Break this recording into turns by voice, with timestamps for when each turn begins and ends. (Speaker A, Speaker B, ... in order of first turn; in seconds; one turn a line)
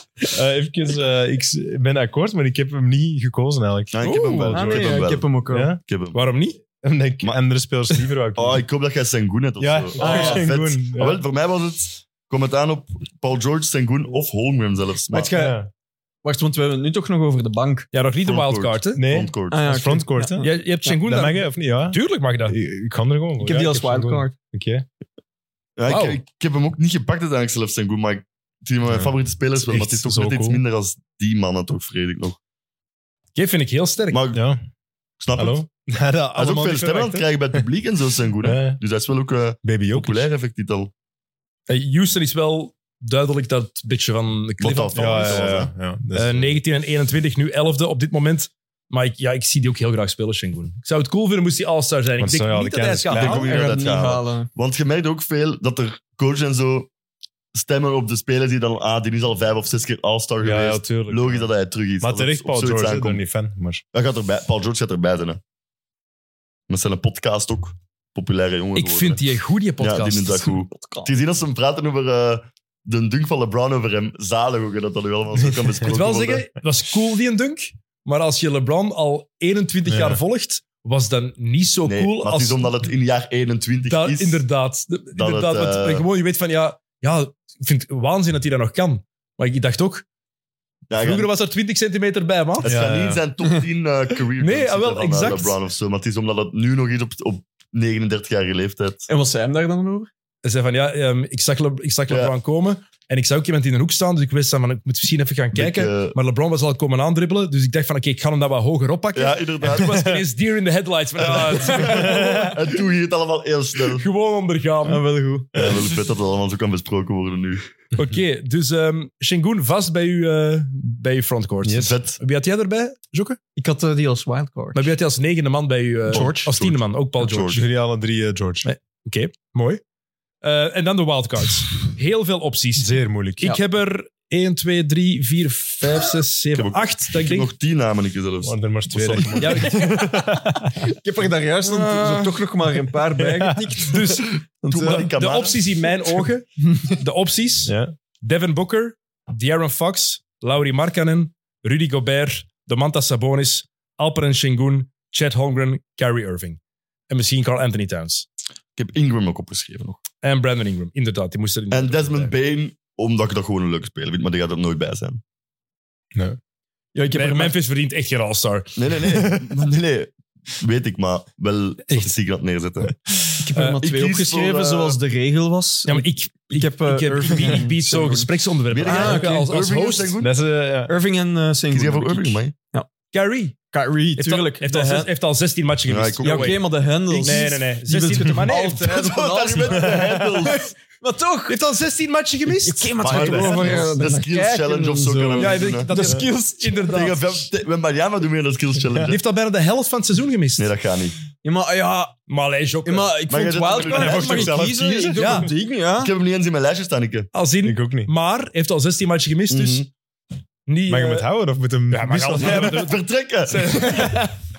Speaker A: 0.3-5.8
Speaker B: 3.9-6.2
Speaker C: 4.0-5.7
Speaker D: 6.1-6.6
Speaker A: 6.8-8.7
Speaker B: 8.4-15.3
Speaker A: 9.6-11.2
Speaker C: 10.0-10.5
Speaker C: 15.1-15.6
Speaker A: 15.3-15.7
Speaker C: 16.2-17.9
Speaker D: 17.9-19.0
Speaker B: 18.2-19.6
Speaker A: 19.0-24.9
Speaker C: 19.5-20.9
Speaker D: 20.4-22.6
Speaker C: 23.4-24.4
Speaker B: 25.8-32.4
Speaker D: 25.9-26.2
Speaker A: 28.9-30.6
Speaker D: 33.4-34.2
Speaker B: 34.1-34.4
Speaker A: 34.3-34.6
Speaker B: 35.2-35.7
Speaker A: 35.4-37.6
Speaker B: 36.4-40.9
Speaker A: 38.4-38.8
Speaker A: 39.6-40.3
Speaker D: 41.7-45.5
Speaker B: 44.6-45.7
Speaker A: 44.9-46.6
Speaker D: 46.1-53.5
Speaker A: 52.2-53.5
Speaker B: 53.1-56.9
Speaker C: 53.4-54.5
Speaker B: 57.5-63.2
Speaker A: 60.4-63.8
Speaker B: 63.9-65.4
Speaker B: 66.7-69.2
Speaker D: 68.8-70.6
Speaker B: 69.8-76.5
Speaker C: 70.7-71.1
Speaker D: 75.9-82.7
Speaker A: 79.9-80.2
Speaker B: 81.8-84.4
Speaker D: 83.9-90.1
Speaker B: 85.1-86.1
Speaker B: 90.9-91.3
Speaker D: 91.0-92.7
Speaker B: 92.6-99.1
Speaker A: 92.6-93.2
Speaker D: 94.4-95.6
Speaker C: 99.1-100.1
Speaker D: 100.4-112.4
Speaker B: 102.1-102.3
Speaker B: 105.5-106.2
Speaker B: 109.1-110.2
Speaker B: 111.2-114.0
Speaker C: 111.7-112.0
Speaker A: 111.9-112.5
Speaker D: 113.9-115.0
Speaker C: 114.9-115.6
Speaker A: 115.5-115.8
Speaker B: 115.6-117.7
Speaker D: 118.0-123.4
Speaker A: 121.6-122.0
Speaker B: 121.8-122.2
Speaker C: 123.6-124.9
Speaker D: 124.8-127.6
Speaker B: 126.1-127.6
Speaker C: 126.1-126.5
Speaker A: 127.5-128.7
Speaker D: 128.6-129.8
Speaker D: 130.4-137.5
Speaker A: 132.8-133.5
Speaker B: 136.5-139.4
Speaker A: 138.4-140.8
Speaker D: 139.2-140.0
Speaker C: 139.7-145.1
Speaker D: 141.7-142.4
Speaker A: 143.2-143.7
Speaker D: 143.8-158.3
Speaker B: 144.7-145.6
Speaker A: 147.7-147.9
Speaker B: 158.8-160.0
Speaker D: 160.2-162.3
Speaker B: 161.7-165.2
Speaker C: 166.9-167.6
Speaker D: 167.1-168.8
Speaker B: 168.8-173.0
Speaker C: 173.4-178.3
Speaker D: 173.4-173.8
Speaker B: 173.8-175.0
Speaker D: 175.9-180.1
Speaker B: 178.7-180.3
Speaker C: 178.8-179.5
Speaker A: 180.2-180.9
Speaker C: 180.9-182.9
Speaker B: 181.7-182.5
Speaker D: 183.1-183.6
Speaker C: 183.7-185.1
Speaker D: 184.2-189.1
Speaker B: 185.9-186.6
Speaker C: 186.2-191.6
Speaker B: 188.8-190.7
Speaker D: 191.5-193.6
Speaker C: 192.5-196.8
Speaker B: 193.0-195.9
Speaker A: 193.1-193.8
Speaker D: 195.4-197.3
Speaker B: 196.9-199.2
Speaker D: 199.1-200.7
Speaker B: 200.6-201.2
Speaker C: 201.4-202.2
Speaker D: 202.3-203.2
Speaker C: 202.8-206.1
Speaker B: 203.3-204.6
Speaker A: 203.9-205.5
Speaker D: 205.2-205.5
Speaker B: 206.0-207.3
Speaker D: 207.3-209.9
Speaker A: 207.6-208.1
Speaker B: 209.5-209.9
Speaker D: 210.7-211.3
Speaker A: 210.9-212.9
Speaker D: 211.9-214.3
Speaker B: 212.4-214.1